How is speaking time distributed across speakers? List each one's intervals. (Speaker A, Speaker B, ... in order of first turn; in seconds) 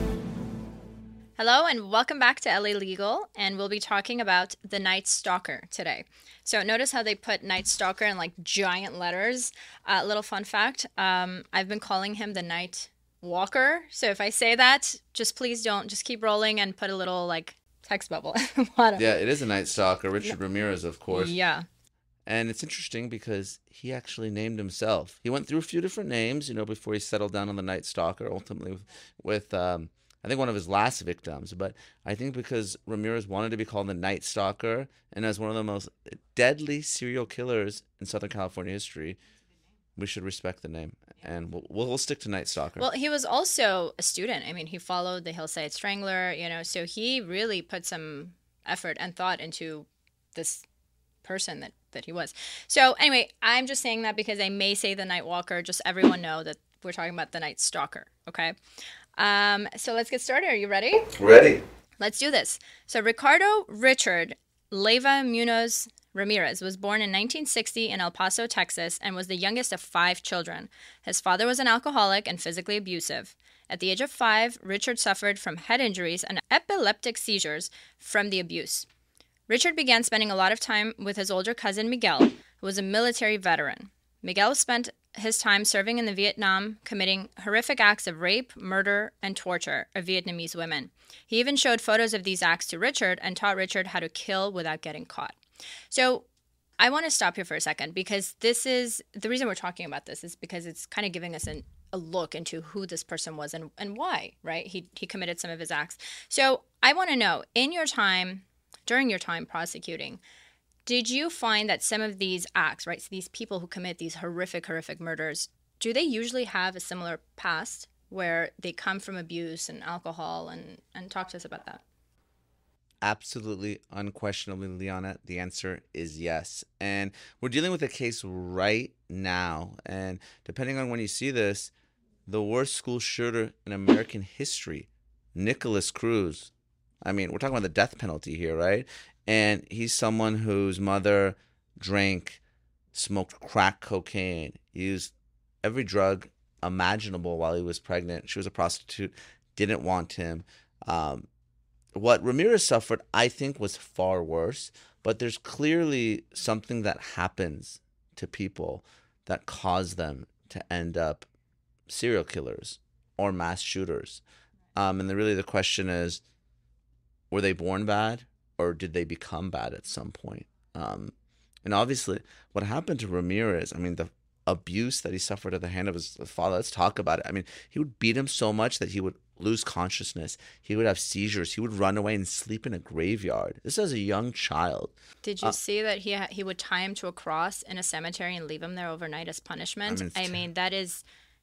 Speaker A: 1.4-19.1, 21.1-21.7, 42.8-50.6, 51.2-58.5, 59.2-61.1, 62.0-78.9, 79.5-95.4, 95.9-96.2, 96.8-110.2, 110.9-121.8, 185.2-191.0
Speaker B: 19.0-21.3, 22.3-39.2, 40.0-42.9, 61.1-61.6, 123.0-131.7, 132.3-136.5, 137.0-142.4, 142.9-151.3, 151.9-161.3, 161.9-164.2, 164.8-166.2, 167.3-185.6, 189.9-190.4